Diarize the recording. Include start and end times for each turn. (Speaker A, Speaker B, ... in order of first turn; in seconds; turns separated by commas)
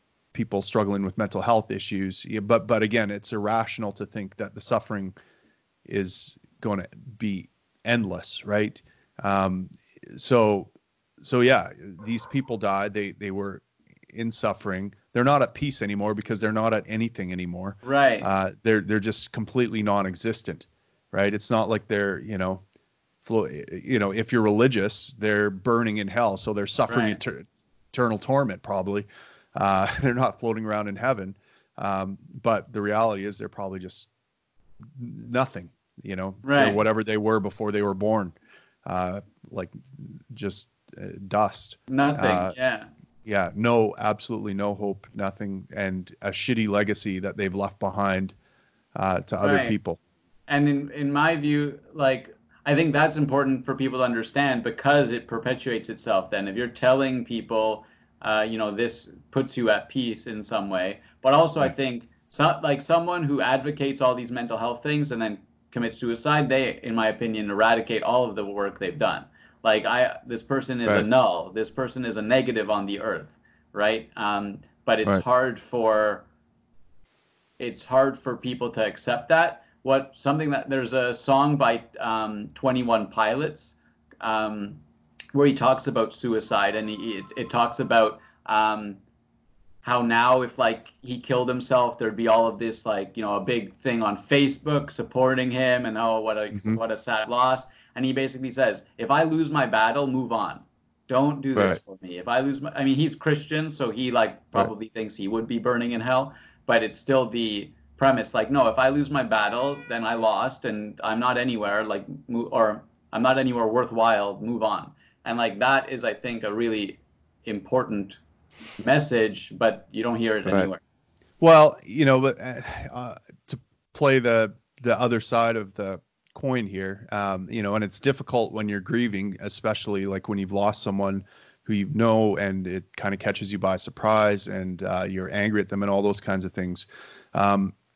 Speaker A: 0.3-5.1, Speaker A: 5.8-10.7, Speaker A: 11.2-22.6, Speaker B: 17.8-18.3, Speaker A: 23.2-34.1, Speaker B: 26.9-27.2, Speaker A: 34.9-42.5, Speaker B: 36.4-36.8, Speaker B: 41.9-42.9, Speaker A: 43.2-48.3, Speaker A: 49.0-50.0, Speaker B: 49.4-49.8, Speaker B: 50.5-76.2, Speaker B: 77.6-84.8, Speaker B: 85.3-89.0, Speaker B: 89.8-118.2, Speaker A: 96.5-96.8, Speaker A: 101.5-101.8, Speaker B: 118.8-120.8, Speaker A: 121.4-137.7